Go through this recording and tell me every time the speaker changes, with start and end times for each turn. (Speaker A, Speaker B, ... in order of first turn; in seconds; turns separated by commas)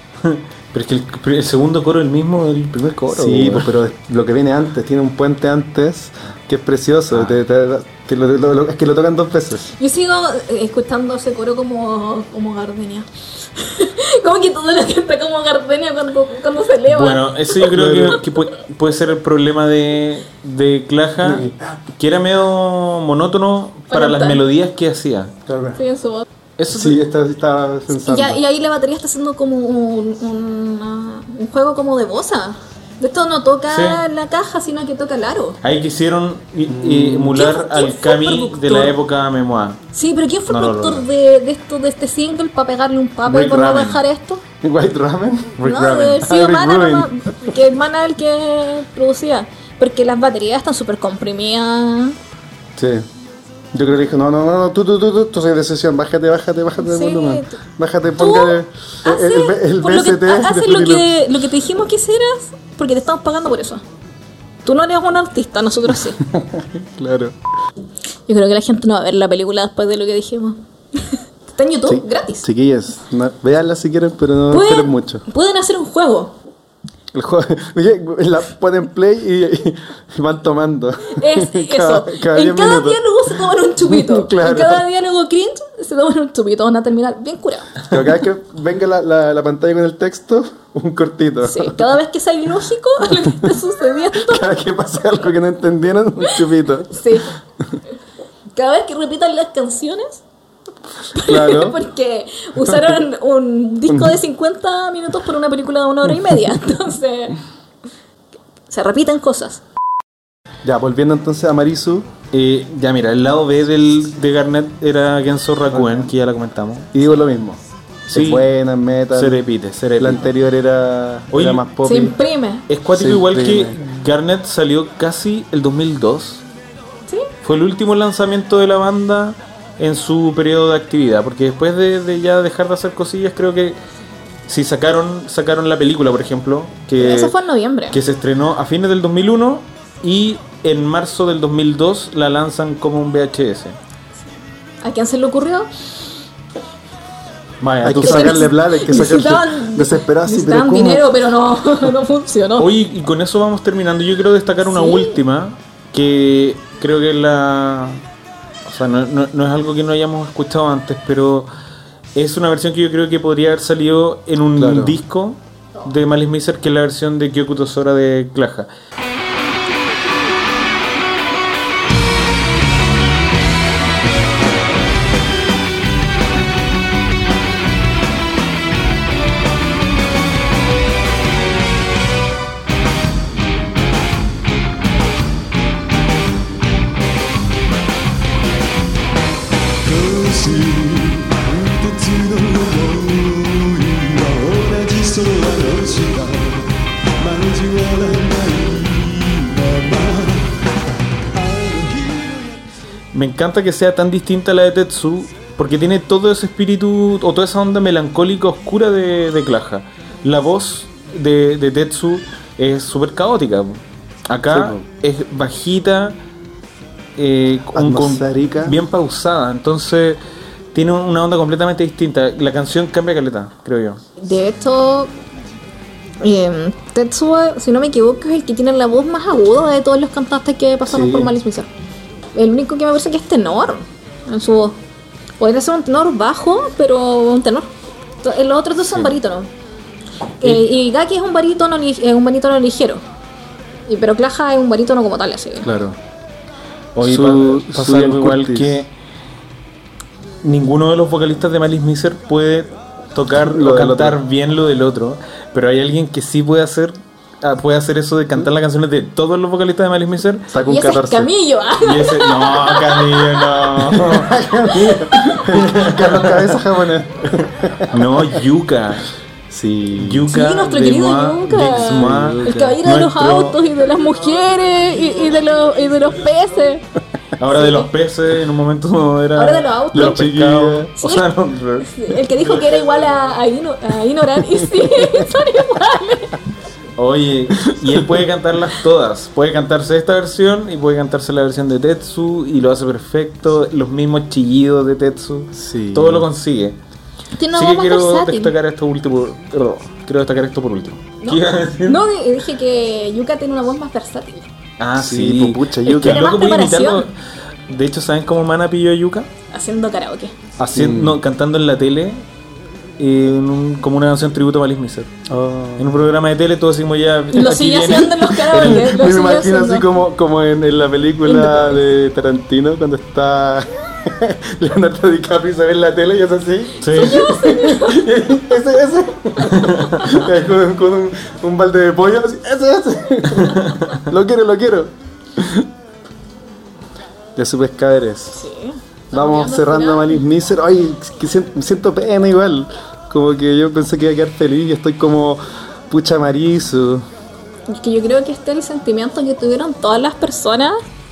Speaker A: 0.2-3.7, Speaker B: 3.1-9.7, Speaker C: 9.7-17.7, Speaker A: 16.9-25.4, Speaker B: 17.7-18.2, Speaker B: 21.2-21.8, Speaker C: 23.9-24.4, Speaker B: 25.5-25.8, Speaker C: 25.8-26.3, Speaker A: 26.6-27.0, Speaker B: 26.7-28.4, Speaker C: 27.9-35.6, Speaker A: 33.7-34.0, Speaker A: 35.6-39.8, Speaker B: 36.7-37.4, Speaker C: 37.3-39.0, Speaker C: 39.9-44.4, Speaker A: 40.5-41.0, Speaker A: 43.2-44.0, Speaker B: 44.6-47.1, Speaker C: 45.6-52.2, Speaker A: 45.7-46.2, Speaker B: 52.8-53.1, Speaker B: 53.7-61.1, Speaker C: 56.8-57.6, Speaker C: 58.2-63.8, Speaker C: 64.7-66.2, Speaker B: 66.2-67.3, Speaker C: 68.3-72.5, Speaker B: 71.9-75.2, Speaker C: 74.5-76.3, Speaker B: 77.1-83.0, Speaker C: 81.1-87.8, Speaker B: 83.8-84.9, Speaker B: 87.8-91.8, Speaker C: 91.4-94.5, Speaker B: 94.1-97.2, Speaker C: 96.9-97.3, Speaker C: 98.5-100.2, Speaker C: 101.1-107.4, Speaker B: 101.2-101.8, Speaker B: 103.9-104.2, Speaker C: 108.7-109.6, Speaker B: 110.6-112.1, Speaker A: 112.3-116.9, Speaker B: 115.7-116.1, Speaker B: 116.9-119.4, Speaker A: 118.1-118.5, Speaker A: 119.1-120.3, Speaker B: 120.0-122.2, Speaker A: 121.3-121.6, Speaker C: 121.8-122.7, Speaker A: 122.7-126.4, Speaker B: 122.9-123.8, Speaker A: 127.4-133.8, Speaker A: 134.5-137.3, Speaker C: 137.0-138.0, Speaker A: 137.9-143.8, Speaker C: 144.8-145.7, Speaker A: 147.6-148.4, Speaker B: 147.8-151.1, Speaker C: 148.0-152.7, Speaker A: 152.6-158.0, Speaker C: 154.7-155.2, Speaker A: 158.7-161.5, Speaker A: 162.2-168.7, Speaker B: 164.6-165.0, Speaker D: 189.8-200.6, Speaker D: 201.3-202.6, Speaker A: 203.1-216.2, Speaker B: 214.5-214.8, Speaker A: 217.2-220.2, Speaker B: 217.7-218.8, Speaker A: 220.7-224.0, Speaker C: 224.2-225.1, Speaker C: 226.2-231.7, Speaker B: 230.9-231.3, Speaker C: 232.3-234.8, Speaker C: 235.4-237.7, Speaker C: 238.2-239.5, Speaker C: 240.4-243.0, Speaker C: 243.9-245.7, Speaker B: 245.6-246.0, Speaker A: 247.0-248.9, Speaker B: 247.0-248.8, Speaker A: 250.4-260.5, Speaker B: 253.4-254.2, Speaker B: 260.5-261.3, Speaker C: 260.6-263.7, Speaker A: 261.8-264.4, Speaker B: 263.8-268.2, Speaker C: 264.7-265.5, Speaker A: 265.5-266.6, Speaker A: 267.9-269.1, Speaker B: 269.5-270.3, Speaker A: 269.9-273.6, Speaker C: 270.3-276.8, Speaker B: 271.6-272.8, Speaker A: 277.4-283.2, Speaker C: 277.5-277.9, Speaker C: 279.4-280.2, Speaker B: 279.9-280.9, Speaker C: 281.0-281.3, Speaker C: 281.8-286.4, Speaker A: 287.0-296.8, Speaker B: 287.7-288.0, Speaker B: 295.5-296.3, Speaker C: 297.4-298.5, Speaker A: 297.5-302.0, Speaker C: 301.2-304.5, Speaker A: 304.8-307.1, Speaker B: 305.0-306.3, Speaker C: 305.9-307.1, Speaker A: 307.7-309.3, Speaker C: 309.5-310.4, Speaker B: 310.6-311.2, Speaker A: 310.6-312.2, Speaker A: 313.0-315.1, Speaker B: 315.3-316.0, Speaker A: 315.8-318.9, Speaker C: 317.3-319.9, Speaker B: 318.5-335.7, Speaker C: 321.2-321.8, Speaker A: 326.8-327.3, Speaker C: 326.9-328.1, Speaker A: 329.5-330.1, Speaker A: 333.4-334.0, Speaker B: 337.4-338.4, Speaker C: 338.3-340.2, Speaker B: 339.1-347.1, Speaker C: 347.7-350.8